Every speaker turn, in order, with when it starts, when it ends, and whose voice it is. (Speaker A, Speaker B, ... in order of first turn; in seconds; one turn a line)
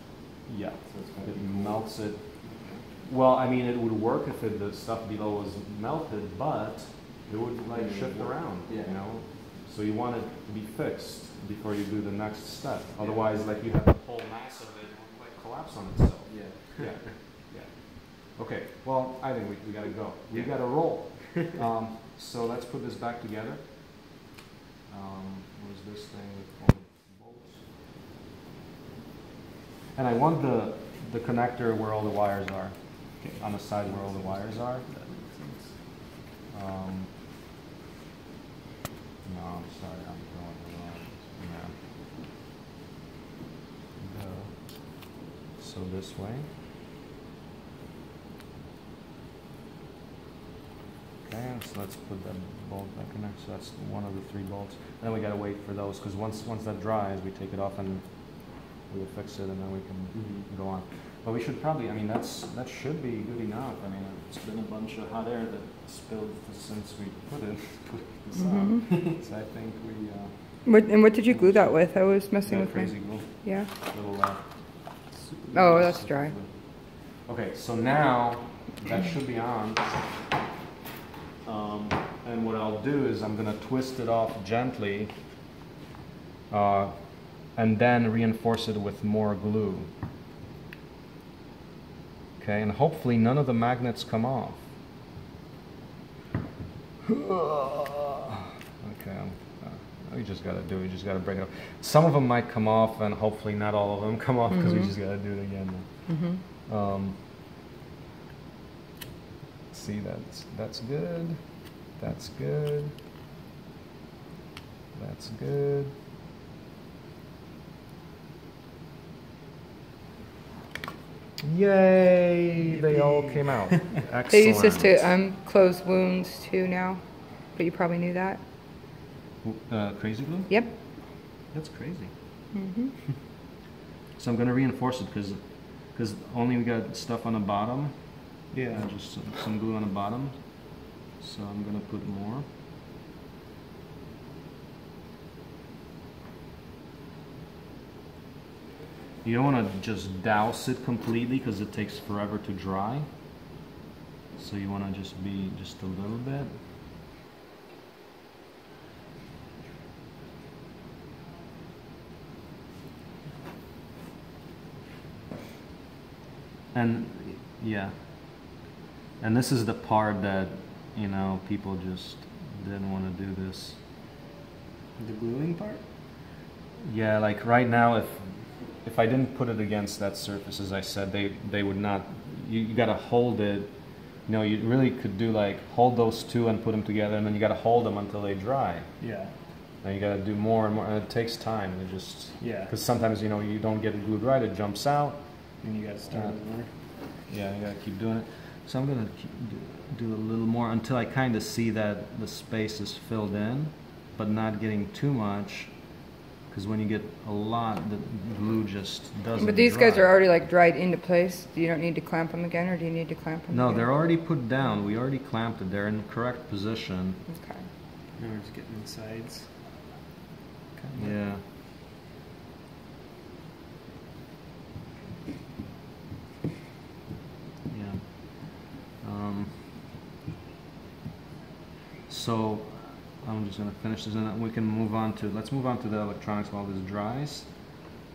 Speaker A: 0.5-23.9
Speaker B: 0.8-2.9
Speaker B: 7.7-9.0
Speaker B: 13.0-13.3
Speaker B: 16.2-17.2
Speaker B: 20.3-21.4
Speaker A: 24.9-27.7
Speaker A: 29.9-34.9
Speaker B: 33.2-35.8
Speaker A: 36.5-37.1
Speaker A: 39.2-41.8
Speaker A: 44.0-46.5
Speaker A: 51.2-70.7
Speaker B: 60.1-60.5
Speaker C: 68.3-68.8
Speaker C: 70.6-73.7
Speaker A: 71.2-80.0
Speaker C: 75.5-76.3
Speaker A: 81.4-85.1
Speaker A: 86.5-89.9
Speaker A: 92.4-94.7
Speaker A: 97.0-107.2
Speaker C: 104.5-104.9
Speaker C: 106.1-106.4
Speaker A: 109.7-112.9
Speaker A: 114.9-115.9
Speaker A: 121.4-125.1
Speaker B: 122.7-123.4
Speaker C: 124.3-128.4
Speaker A: 129.4-132.1
Speaker C: 132.5-133.0
Speaker A: 134.2-142.5
Speaker B: 138.5-138.9
Speaker A: 149.2-153.1
Speaker A: 154.3-156.5
Speaker A: 166.7-167.9
Speaker A: 169.2-173.8
Speaker B: 174.9-175.8
Speaker A: 176.8-188.9
Speaker B: 189.0-189.3
Speaker A: 189.8-195.2
Speaker B: 192.4-192.7
Speaker B: 195.6-196.7
Speaker A: 196.1-196.4
Speaker A: 197.2-205.8
Speaker A: 206.5-210.1
Speaker C: 209.4-213.9
Speaker A: 213.5-217.2
Speaker C: 217.3-217.7
Speaker B: 218.2-219.5
Speaker B: 220.7-221.2
Speaker A: 220.9-221.4
Speaker A: 227.7-229.8
Speaker A: 232.1-237.9